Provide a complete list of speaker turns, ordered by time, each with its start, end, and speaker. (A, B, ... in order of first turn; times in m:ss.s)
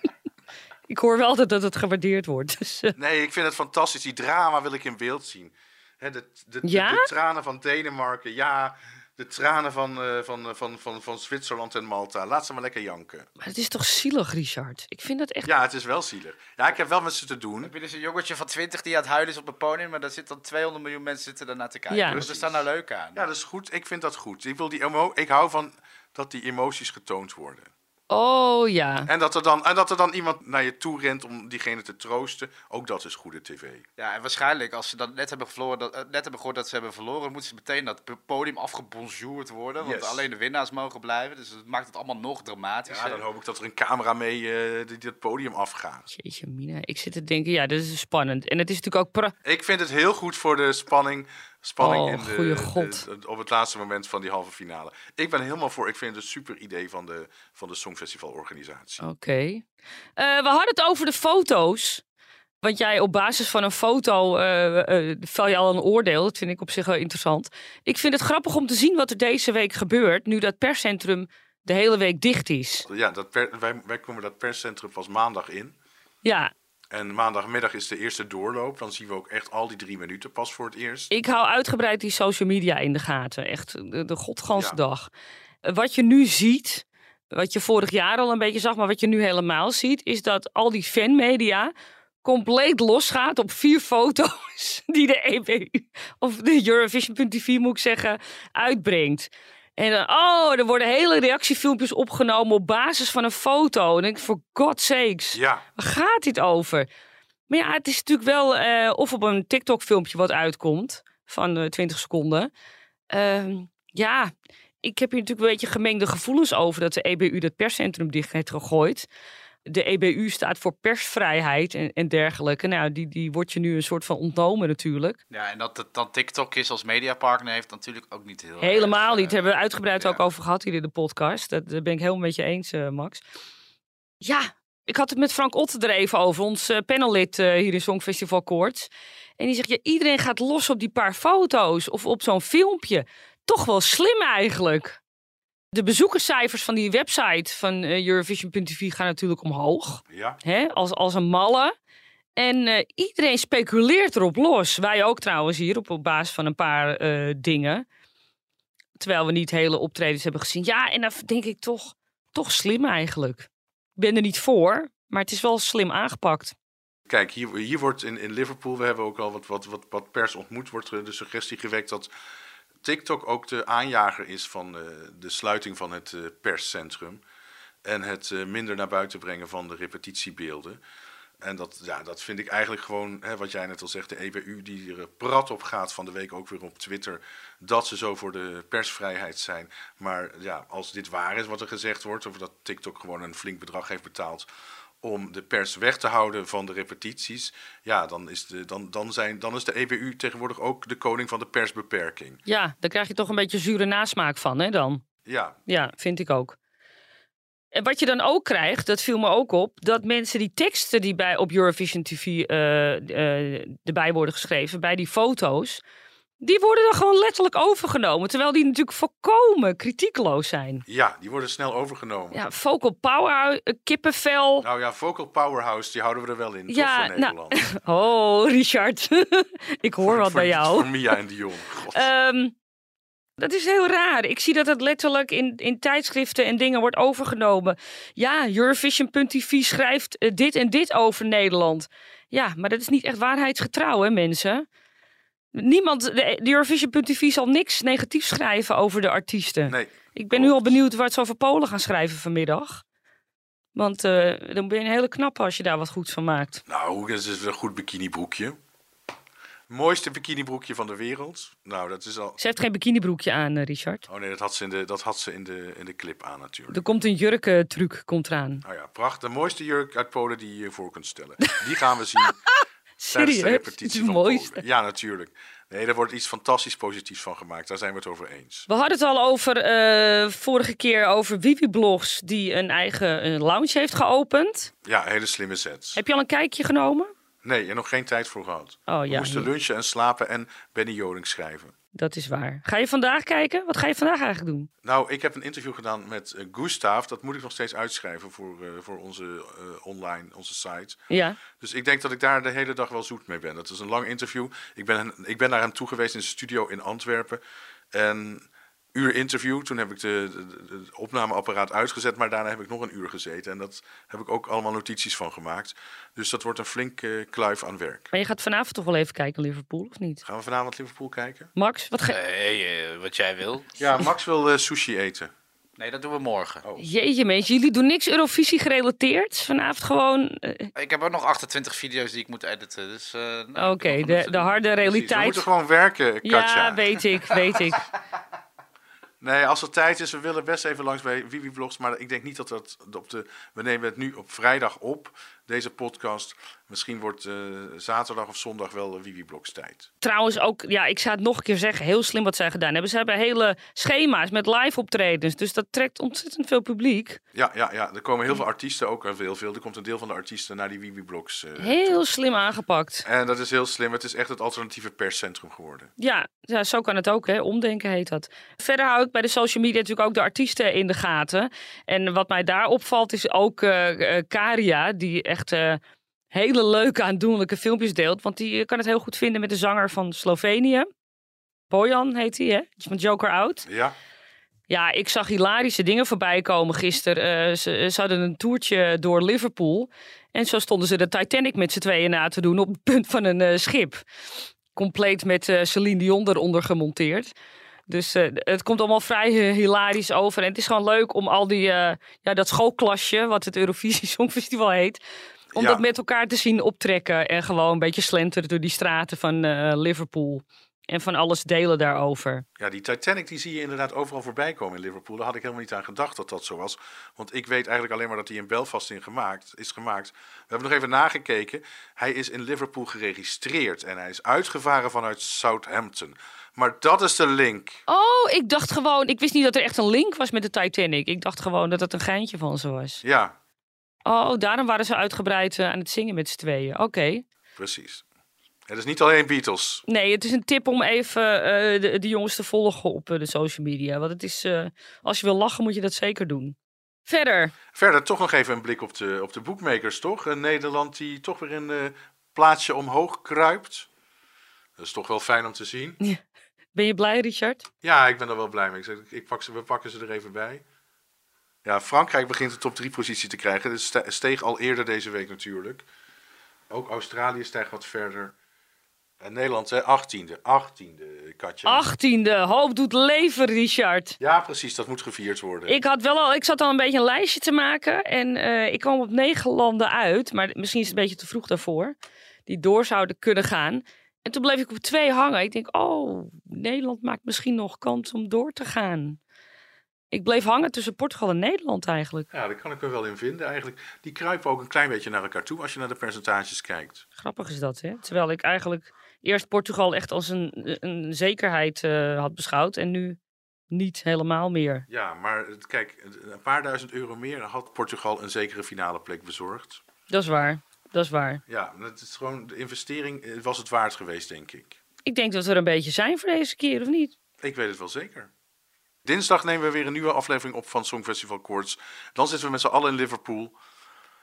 0:00.9-0:02.9 A
0:03.0-0:13.3 B
0:06.6-0:07.1 A
0:13.4-0:15.5 A
0:15.4-0:17.7 B
0:17.6-0:23.2 C
0:21.9-0:22.2 A
0:22.1-0:27.7 B
0:28.1-0:29.1 A
0:29.1-0:33.8 B
0:34.0-0:43.2 C
0:39.8-0:40.3 B
0:42.9-0:46.1 B
0:46.1-0:49.3 A
0:49.4-0:59.0 B
0:51.8-0:53.0 A
0:59.0-0:59.6 A
1:00.2-1:02.0 A
1:02.6-1:12.9 A
1:12.9-1:15.7 B
1:16.2-1:16.5 A
1:16.9-1:21.1 B
1:21.1-1:25.1 A
1:25.6-1:31.7 A
1:32.2-1:46.9 A
1:45.3-1:45.6 B
1:47.5-1:52.5 A
1:53.1-1:54.3 A
1:54.8-1:59.1 A
1:59.7-2:05.2 A
2:05.3-2:09.4 C
2:08.6-2:13.2 A
2:14.2-2:25.0 A
2:25.7-2:31.7 A
2:30.1-2:30.4 B
2:32.4-2:37.8 A
2:39.0-2:46.5 A
2:47.1-2:52.1 B
2:52.8-2:57.2 B
2:57.8-3:00.8 B
3:01.4-3:14.5 B
3:15.0-3:22.4 B
3:22.4-3:25.0 A
3:25.2-3:25.6 B
3:25.7-3:26.6 A
3:27.7-3:35.8 A
3:36.4-3:40.8 A
3:40.9-3:42.4 B
3:42.3-3:44.6 A
3:44.6-3:47.7 B
3:46.7-3:50.9 A
3:50.0-3:52.1 B
3:51.9-3:52.5 A
3:53.4-4:04.6 A
4:05.5-4:12.8 A
4:09.7-4:10.8 B
4:13.7-4:16.6 A
4:16.7-4:18.6 B
4:19.7-4:22.4 B
4:22.4-4:24.1 A
4:24.1-4:26.8 B
4:26.7-4:28.6 A
4:28.6-4:32.4 B
4:33.0-4:34.6 A
4:33.1-4:38.7 B
4:38.7-4:44.7 A
4:44.8-4:46.0 B
4:46.0-4:47.1 A
4:47.4-4:51.7 B
4:48.9-4:49.5 A
4:51.9-4:54.7 A
4:54.8-5:01.0 B
5:01.1-5:01.4 A
5:01.6-5:07.4 B
5:07.9-5:18.1 B
5:18.1-5:20.2 A
5:20.2-5:21.5 B
5:21.6-5:22.2 A
5:22.1-5:23.7 C
5:23.8-5:25.3 B
5:25.8-5:26.6 C
5:26.8-5:30.7 A
5:30.8-5:34.6 C
5:33.6-5:35.4 A
5:34.8-5:37.0 B
5:36.2-5:37.8 A
5:39.2-5:49.9 B
5:50.0-5:57.2 A
5:57.3-6:02.0 B
6:01.6-6:03.1 A
6:03.0-6:05.9 B
6:06.0-6:15.8 A
6:16.3-6:20.9 A
6:21.7-6:23.6 A
6:23.6-6:24.0 B
6:24.7-6:34.0 A
6:34.7-6:37.3 A
6:37.9-6:45.0 A
6:45.5-6:45.8 B
6:45.5-6:52.4 A
6:52.6-7:07.8 B
7:07.9-7:13.0 A
7:13.0-7:13.4 B
7:14.1-7:17.2 A
7:17.6-7:18.0 B
7:18.7-7:19.8 B
7:19.9-7:27.5 A
7:27.7-7:33.9 B
7:34.8-7:36.0 B
7:36.7-7:37.6 A
7:37.8-7:40.6 B
7:41.6-7:45.8 B
7:46.7-7:48.3 B
7:49.2-7:51.9 B
7:51.6-7:54.2 A
7:54.2-7:55.8 B
7:55.7-8:02.0 A
8:02.5-8:09.2 A
8:10.1-8:12.3 A
8:12.3-8:17.0 B
8:17.2-8:23.2 A
8:23.7-8:24.8 A
8:24.9-8:29.8 B
8:30.1-8:31.4 A
8:31.5-8:34.8 B
8:35.1-8:37.1 A
8:37.4-8:38.3 B
8:39.0-8:43.6 B